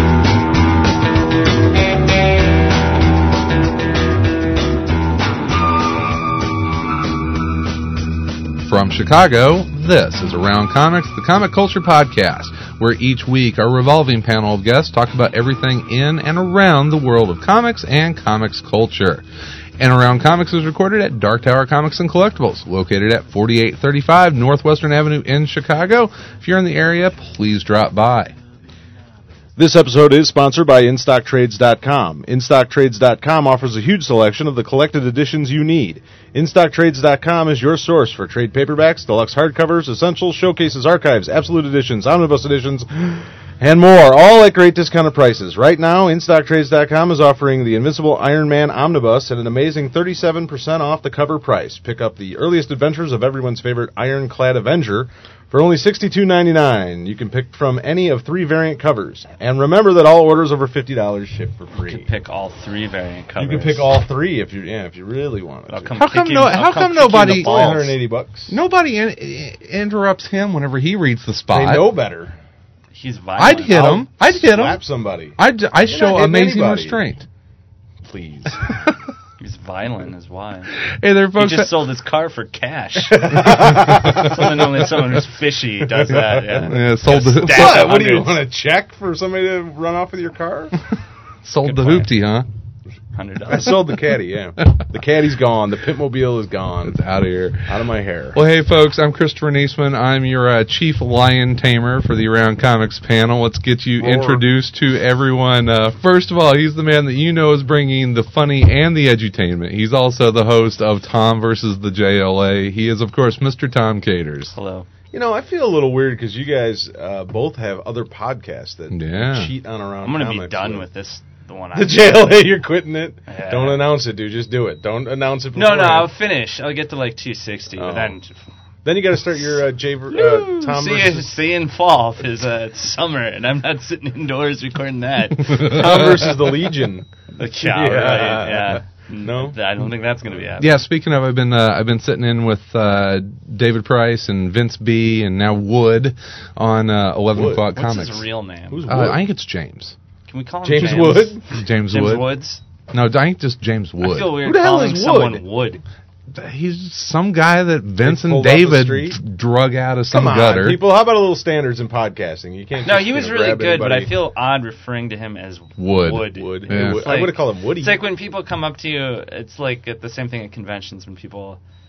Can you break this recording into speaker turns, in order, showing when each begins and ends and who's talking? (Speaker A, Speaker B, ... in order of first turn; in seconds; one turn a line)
Speaker A: 8.6-19.2
Speaker A: 19.8-28.4
Speaker B: 29.6-62.1
Speaker C: 61.8-63.9
Speaker B: 63.4-66.0
Speaker C: 65.7-67.9
Speaker A: 66.0-67.9
Speaker B: 67.1-68.6
Speaker A: 68.5-71.9
Speaker B: 71.5-72.4
Speaker C: 72.9-74.0
Speaker A: 73.4-74.8
Speaker B: 73.5-77.0
Speaker A: 75.4-77.3
Speaker B: 78.0-78.7
Speaker C: 79.4-80.7
Speaker A: 80.9-81.7
Speaker C: 81.4-88.5
Speaker B: 83.1-84.5
Speaker B: 85.8-86.7
Speaker A: 86.7-87.9
Speaker B: 87.3-90.7
Speaker A: 91.5-92.5
Speaker C: 91.7-92.1
Speaker C: 93.2-93.8
Speaker B: 93.5-97.0
Speaker A: 96.9-97.7
Speaker B: 97.7-98.4
Speaker A: 98.3-114.5
Speaker B: 104.0-104.4
Speaker C: 114.5-114.9
Speaker B: 115.1-120.9
Speaker A: 118.9-119.5
Speaker C: 120.0-122.3
Speaker B: 121.7-126.1
Speaker C: 123.3-123.8
Speaker C: 125.5-128.4
Speaker B: 127.8-128.2
Speaker B: 128.8-131.3
Speaker C: 130.1-136.0
Speaker B: 135.5-137.1
Speaker C: 137.3-140.7
Speaker B: 137.6-139.6
Speaker A: 140.6-148.2
Speaker B: 147.3-147.6
Speaker C: 147.8-148.9
Speaker B: 148.7-149.2
Speaker A: 148.9-150.0
Speaker C: 150.3-152.6
Speaker B: 150.6-151.4
Speaker A: 150.8-152.3
Speaker A: 152.9-154.4
Speaker C: 154.0-155.8
Speaker B: 154.4-155.4
Speaker A: 156.3-160.8
Speaker B: 158.0-159.2
Speaker B: 160.1-164.1
Speaker C: 162.8-171.6
Speaker A: 165.8-167.0
Speaker B: 166.3-168.0